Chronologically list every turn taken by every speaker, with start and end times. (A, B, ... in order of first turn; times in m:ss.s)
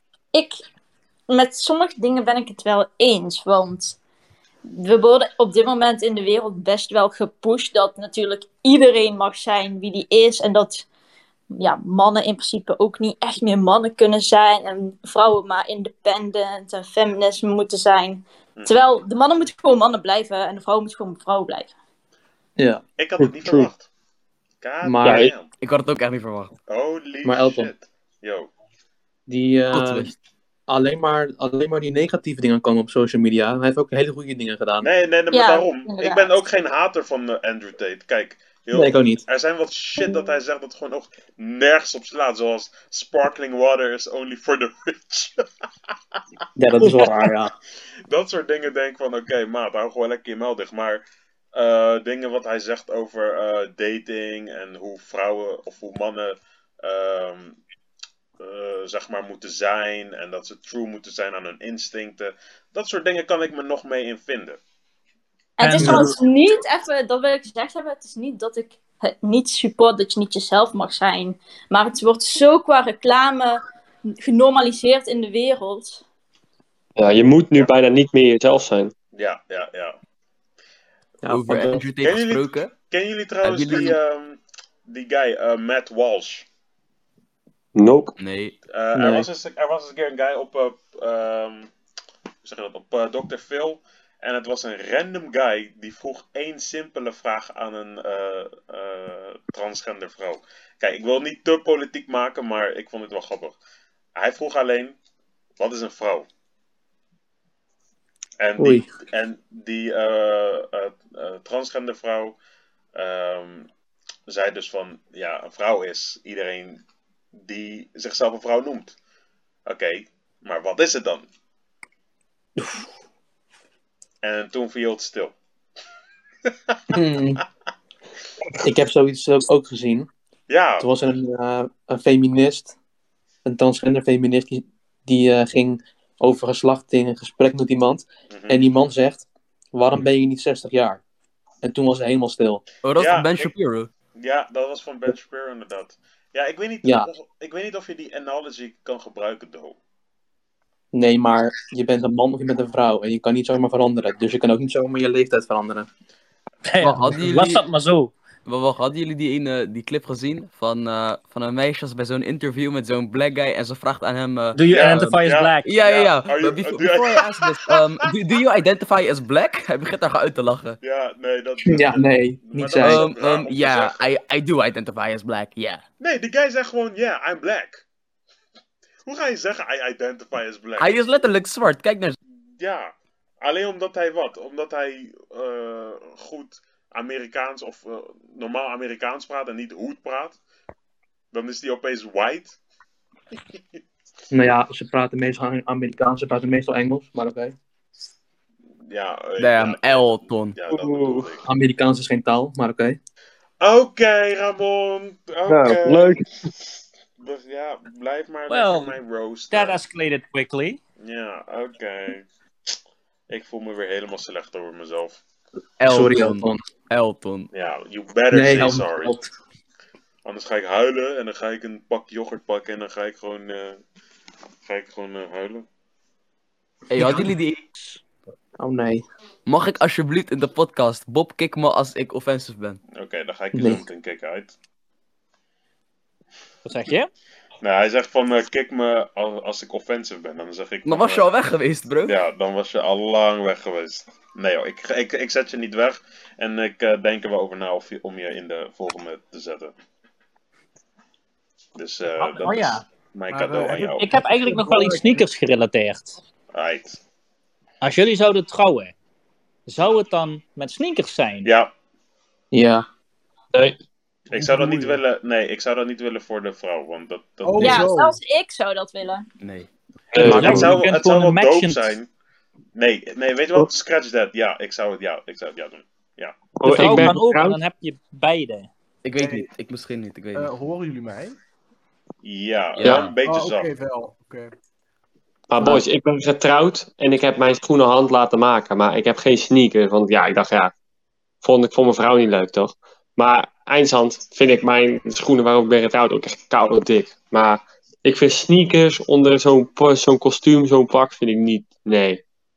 0:00.3-0:00.6 A
0:01.3-0:04.0 A
0:04.7-0:10.9 A
0:11.5-0:21.7 A
0:18.6-0:18.9 B
0:22.6-0:22.8 C
0:23.0-0:23.9 B
0:23.2-0:23.7 D
0:24.6-0:25.5 B
0:24.8-0:25.3 C
0:25.0-0:25.3 D
0:25.6-0:26.6 E
0:26.7-0:28.5 B
0:27.2-0:27.7 C
0:29.3-0:30.1 C
0:29.7-0:30.1 E
0:30.7-0:34.9 C
0:34.8-0:45.4 B
0:35.3-0:36.3 A
0:38.7-0:39.2 C
0:46.6-0:47.5 C
0:48.1-0:51.0 B
0:51.5-0:57.6 B
0:58.4-1:04.6 B
1:05.6-1:13.6 A
1:05.6-1:06.1 F
1:05.8-1:06.1 C
1:14.2-1:16.0 A
1:17.0-1:18.9 D
1:19.1-1:20.0 B
1:21.2-1:21.8 C
1:21.3-1:22.7 E
1:22.0-1:26.5 B
1:23.4-1:24.0 E
1:27.8-1:28.2 D
1:28.2-1:28.6 E
1:28.7-1:31.7 B
1:28.9-1:29.3 C
1:32.4-1:43.6 B
1:44.2-1:45.0 B
1:45.6-1:46.3 B
1:48.4-1:52.4 B
1:48.6-1:48.9 C
1:53.0-1:53.7 B
1:54.3-1:56.8 B
1:57.4-1:59.0 B
1:59.7-2:01.3 B
2:04.2-2:05.3 B
2:06.5-2:06.8 B
2:06.9-2:07.4 C
2:08.6-2:10.1 C
2:10.5-2:10.9 B
2:10.8-2:12.8 C
2:13.4-2:21.0 C
2:18.3-2:18.7 B
2:21.6-2:22.6 C
2:22.8-2:23.9 E
2:23.0-2:23.5 B
2:24.2-2:29.8 B
2:26.8-2:27.1 C
2:30.9-2:35.9 C
2:36.6-2:38.1 F
2:36.8-2:37.6 E
2:38.5-2:50.8 E
2:44.6-2:45.7 F
2:44.7-2:47.8 B
2:50.8-2:54.0 B
2:51.6-2:53.0 C
2:52.8-2:55.8 E
2:56.0-2:57.8 B
2:59.1-3:01.0 B
3:00.8-3:02.2 E
3:02.6-3:10.4 B
3:11.3-3:12.6 B
3:14.3-3:17.6 C
3:18.9-3:21.4 B
3:19.4-3:20.6 E
3:20.7-3:21.3 D
3:21.5-3:23.0 C
3:23.6-3:26.2 B
3:25.5-3:26.3 D
3:27.2-3:29.8 B
3:28.5-3:29.0 F
3:29.5-3:30.8 F
3:31.0-3:32.2 B
3:33.3-3:35.2 B
3:35.8-3:37.5 E
3:35.9-3:36.6 C
3:37.5-3:39.1 B
3:38.3-3:39.3 C
3:40.2-3:43.8 B
3:44.6-3:45.6 B
3:46.9-3:47.7 E
3:48.6-3:49.0 C
3:49.5-3:52.8 E
3:53.0-3:54.5 B
3:53.5-3:53.8 C
3:56.6-3:57.1 F
3:57.6-4:01.3 B
4:00.8-4:02.2 E
4:02.0-4:09.7 B
4:11.8-4:14.1 B
4:12.1-4:12.8 F
4:13.3-4:15.2 G
4:14.0-4:16.2 F
4:16.5-4:17.0 B
4:17.8-4:18.9 F
4:19.7-4:21.5 F
4:21.4-4:21.7 B
4:22.5-4:22.8 C
4:24.3-4:27.9 B
4:24.3-4:25.0 G
4:27.4-4:28.2 G
4:27.6-4:29.2 A
4:29.4-4:29.7 E
4:30.1-4:30.8 D
4:30.2-4:32.1 B
4:30.2-4:31.9 F
4:32.8-4:36.4 B
4:36.6-4:37.6 D
4:36.6-4:38.7 F
4:39.0-4:40.5 E
4:39.2-4:39.5 G
4:40.4-4:41.4 G
4:42.2-4:43.7 B
4:42.8-4:43.1 E
4:42.8-4:43.1 D
4:43.2-4:44.5 G
4:45.5-4:50.7 D
4:51.4-5:02.2 D